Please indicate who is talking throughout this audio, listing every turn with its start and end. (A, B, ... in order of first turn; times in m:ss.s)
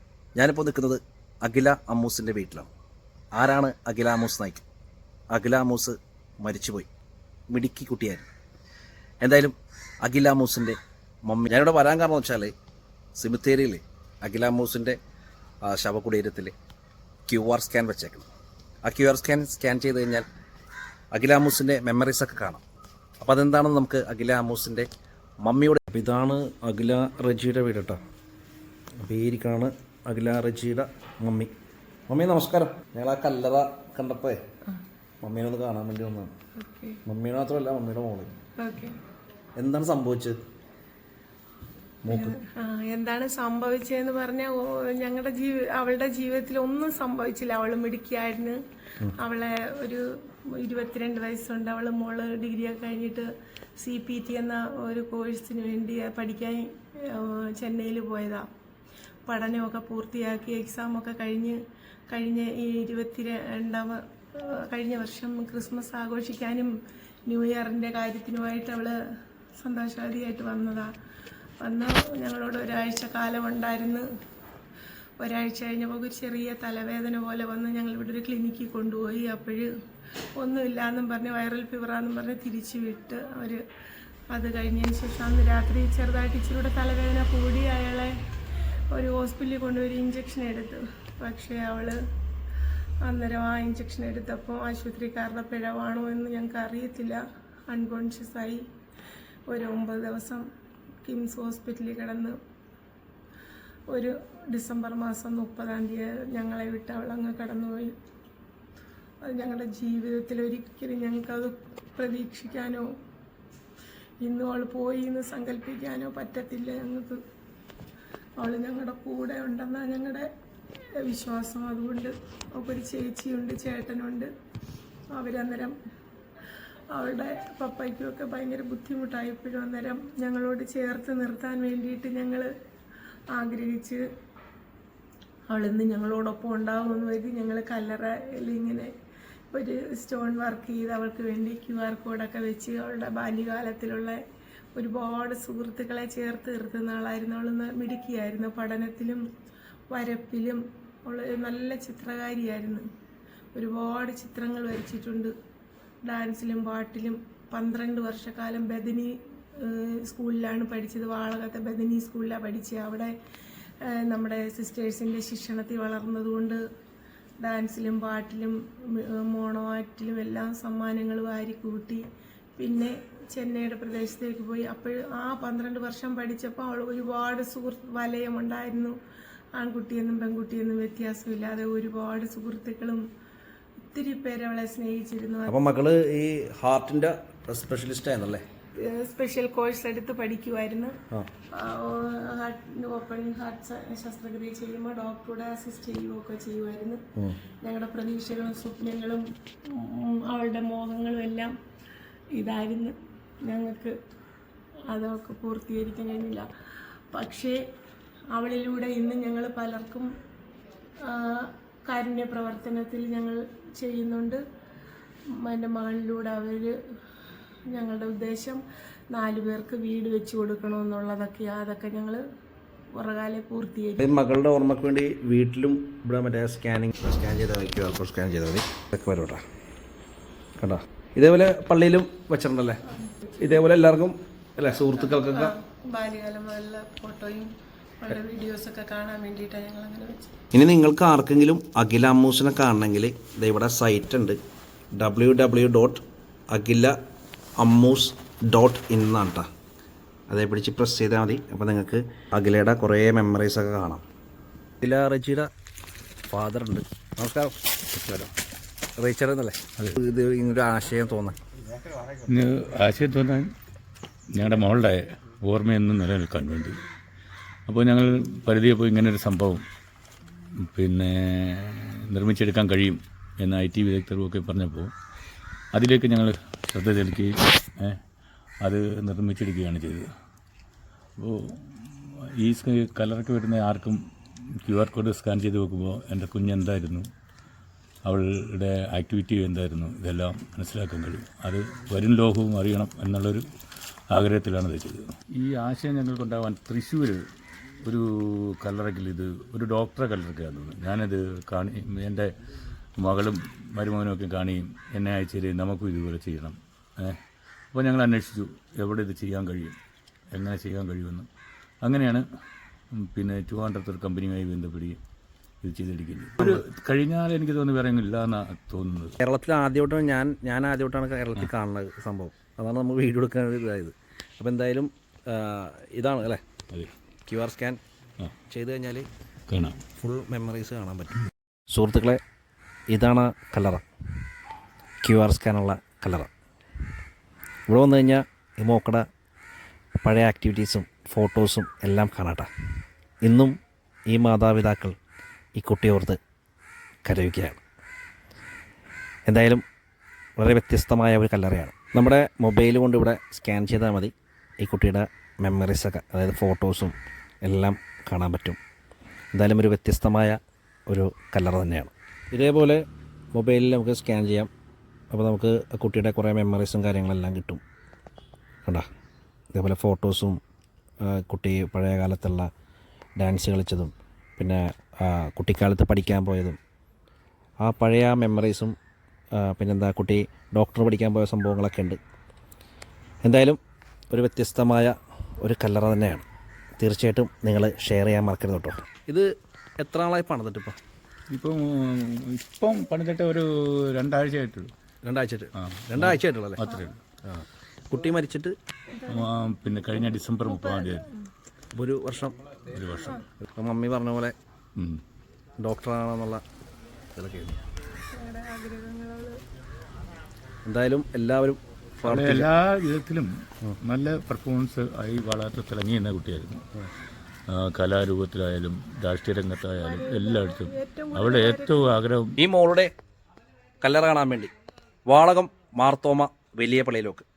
0:00.4-0:02.7 A
0:03.4-0:04.6 A
0:05.3-0:06.9 A
0:07.5-0:08.3 A
0:09.2-0:12.5 A
0:13.2-0:15.0 A
0:15.6-0:16.5 A
0:17.3-0:18.3 A
0:18.8-0:20.3 A
0:21.1-0:22.6 A
0:23.2-0:24.9 A
0:25.4-0:28.0 A
0:29.0-0:31.5 A
0:32.1-0:34.4 A
0:35.2-0:36.3 A
0:36.6-0:37.0 B
0:37.0-0:38.3 A
0:38.6-0:39.0 B
0:39.6-0:40.4 A
0:42.0-0:42.4 A
0:42.1-0:48.6 B
0:49.2-0:53.3 B
0:53.8-0:58.5 B
0:59.3-1:01.6 B
1:02.1-1:06.7 B
1:07.3-1:09.0 B
1:09.6-1:10.9 B
1:11.6-1:14.1 B
1:15.2-1:19.7 B
1:20.4-1:23.6 B
1:24.3-1:28.2 B
1:28.9-1:32.0 B
1:33.0-1:38.6 B
1:39.5-1:40.4 B
1:41.0-1:42.4 B
1:43.9-1:48.0 B
1:49.2-1:52.9 B
1:54.2-1:57.2 B
1:58.4-2:00.3 B
2:01.0-2:04.3 B
2:05.1-2:05.8 B
2:07.0-2:12.5 B
2:13.3-2:14.0 B
2:15.5-2:18.9 B
2:19.5-2:24.2 B
2:24.8-2:29.2 B
2:29.9-2:32.8 B
2:33.5-2:35.3 B
2:36.0-2:43.1 B
2:43.8-2:46.6 B
2:47.4-2:52.0 B
2:52.6-2:59.0 B
2:59.6-3:03.1 B
3:03.8-3:05.6 B
3:05.5-3:08.5 A
3:08.8-3:11.0 B
3:11.5-3:17.0 B
3:17.6-3:21.5 B
3:22.4-3:24.0 B
3:24.9-3:26.5 B
3:27.1-3:27.6 B
3:28.3-3:30.1 B
3:31.0-3:34.4 B
3:35.4-3:36.8 B
3:37.7-3:42.2 B
3:42.9-3:44.1 B
3:44.0-3:49.4 A
3:50.6-3:52.8 A
3:52.9-3:53.2 B
3:53.4-3:55.5 A
3:54.7-4:00.4 B
4:00.5-4:04.4 A
4:04.9-4:07.0 A
4:07.6-4:09.5 A
4:10.3-4:14.0 A
4:14.8-4:15.5 A
4:16.3-4:17.6 A
4:17.9-4:18.3 C
4:19.0-4:21.4 A
4:22.1-4:23.5 C
4:24.4-4:26.8 C
4:27.7-4:29.6 C
4:30.6-4:34.9 C
4:35.7-4:38.0 C
4:38.6-4:40.1 C
4:41.2-4:44.0 C
4:44.6-4:47.1 C
4:48.0-4:53.4 C
4:54.1-4:57.2 C
4:57.8-5:02.3 C
5:03.0-5:07.2 C
5:07.7-5:09.8 C
5:10.3-5:11.3 C
5:11.8-5:12.2 C
5:13.0-5:15.0 C
5:15.6-5:19.2 C
5:19.2-5:26.4 A
5:27.3-5:27.8 A
5:28.5-5:29.1 A
5:29.5-5:29.8 C
5:30.0-5:32.2 A
5:32.9-5:33.8 A
5:35.0-5:36.3 A
5:37.7-5:39.1 A
5:40.0-5:42.5 A
5:43.2-5:43.6 A
5:44.1-5:45.0 A
5:45.6-5:46.2 A
5:47.0-5:47.6 A
5:49.3-5:49.6 A
5:50.4-5:58.6 A
5:59.4-6:04.5 A
6:05.1-6:07.6 A
6:09.5-6:10.4 A
6:11.0-6:12.5 A
6:13.2-6:16.6 A
6:17.6-6:18.8 A
6:19.3-6:22.0 A
6:23.2-6:23.6 A
6:24.1-6:26.2 A
6:26.8-6:30.8 A
6:31.3-6:34.7 C
6:35.0-6:36.6 A
6:35.6-6:37.0 C
6:37.2-6:38.6 A
6:38.9-6:39.3 B
6:39.1-6:41.1 C
6:40.5-6:41.3 B
6:41.7-6:42.4 A
6:42.7-6:43.3 C
6:43.5-6:44.4 A
6:45.6-6:46.4 A
6:47.1-6:47.6 A
6:48.1-6:49.4 B
6:50.6-6:52.5 A
6:52.0-6:53.3 C
6:53.8-6:56.6 C
6:57.5-7:02.4 C
6:59.8-7:01.9 B
7:02.4-7:02.9 A
7:03.8-7:04.5 A
7:05.1-7:07.3 A